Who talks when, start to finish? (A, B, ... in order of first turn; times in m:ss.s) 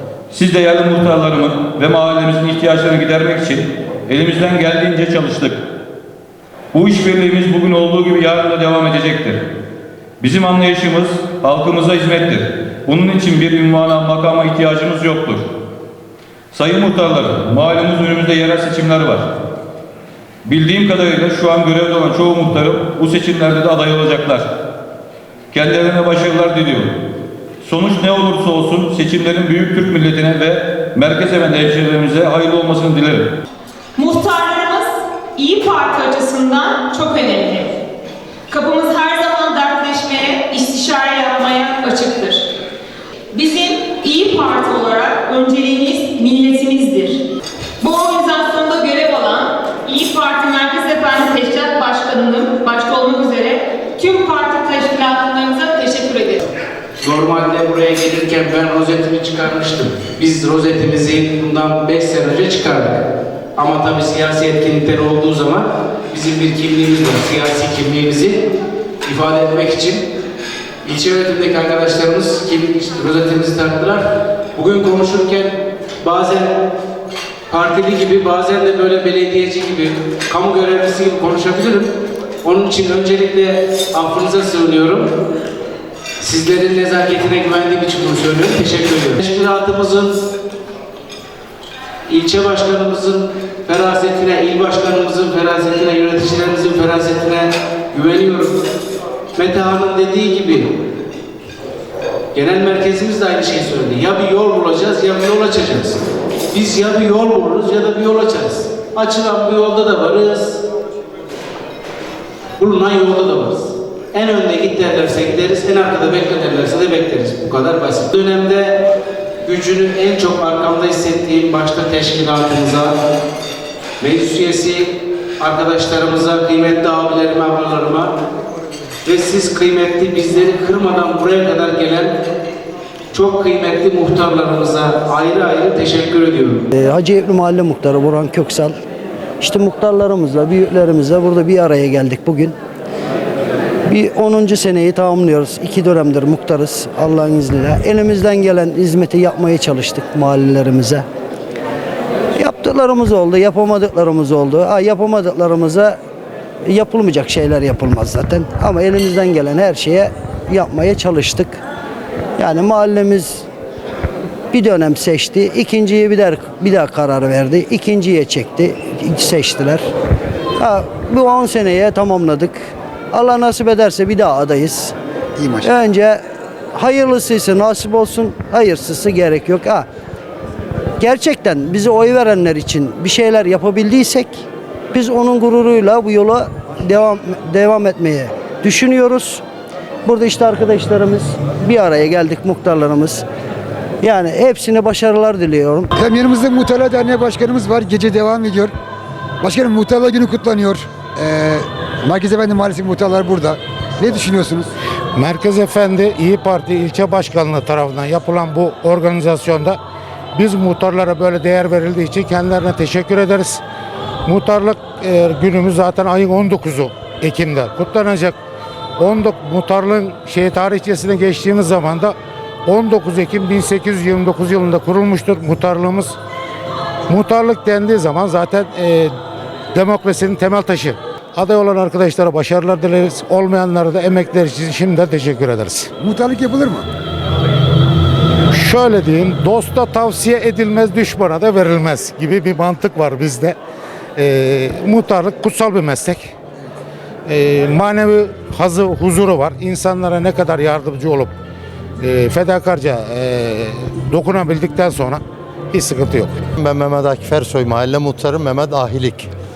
0:00.3-0:05.6 A
0:06.7-0:09.4 A
0:10.2-0:15.5 A
0:16.5-0:19.3 A
0:20.4-0:24.5 A
0:25.5-0:26.9 A
0:27.6-0:33.4 A
0:34.0-0:37.7 B
0:38.5-0:42.4 B
0:43.3-0:47.2 B
0:47.8-0:56.4 B
0:57.0-1:03.0 C
1:03.6-1:08.4 C
1:09.0-1:10.0 C
1:10.8-1:16.6 C
1:17.5-1:21.9 C
1:22.4-1:25.1 C
1:26.2-1:30.2 C
1:32.1-1:38.6 C
1:39.4-1:40.7 C
1:42.3-1:50.6 C
1:52.6-1:58.8 C
1:59.4-2:03.0 C
2:04.0-2:08.1 C
2:09.0-2:12.1 C
2:13.1-2:16.7 C
2:16.7-2:18.8 D
2:19.4-2:22.6 D
2:23.9-2:31.0 D
2:32.4-2:36.0 D
2:36.7-2:41.6 D
2:42.4-2:43.4 D
2:44.5-2:49.8 D
2:50.6-2:54.9 D
2:55.4-2:55.7 E
2:55.6-2:56.2 D
2:56.8-2:59.9 D
3:01.0-3:09.4 D
3:10.1-3:13.2 D
3:14.0-3:15.9 D
3:16.0-3:18.7 E
3:19.4-3:24.7 E
3:25.2-3:29.8 F
3:30.4-3:33.6 F
3:34.2-3:38.4 F
3:39.0-3:46.2 F
3:47.1-3:49.1 F
3:49.7-3:55.9 F
3:56.0-3:56.9 E
3:58.5-4:03.6 F
4:04.2-4:06.3 F
4:07.3-4:11.3 F
4:12.0-4:16.4 F
4:16.6-4:19.3 G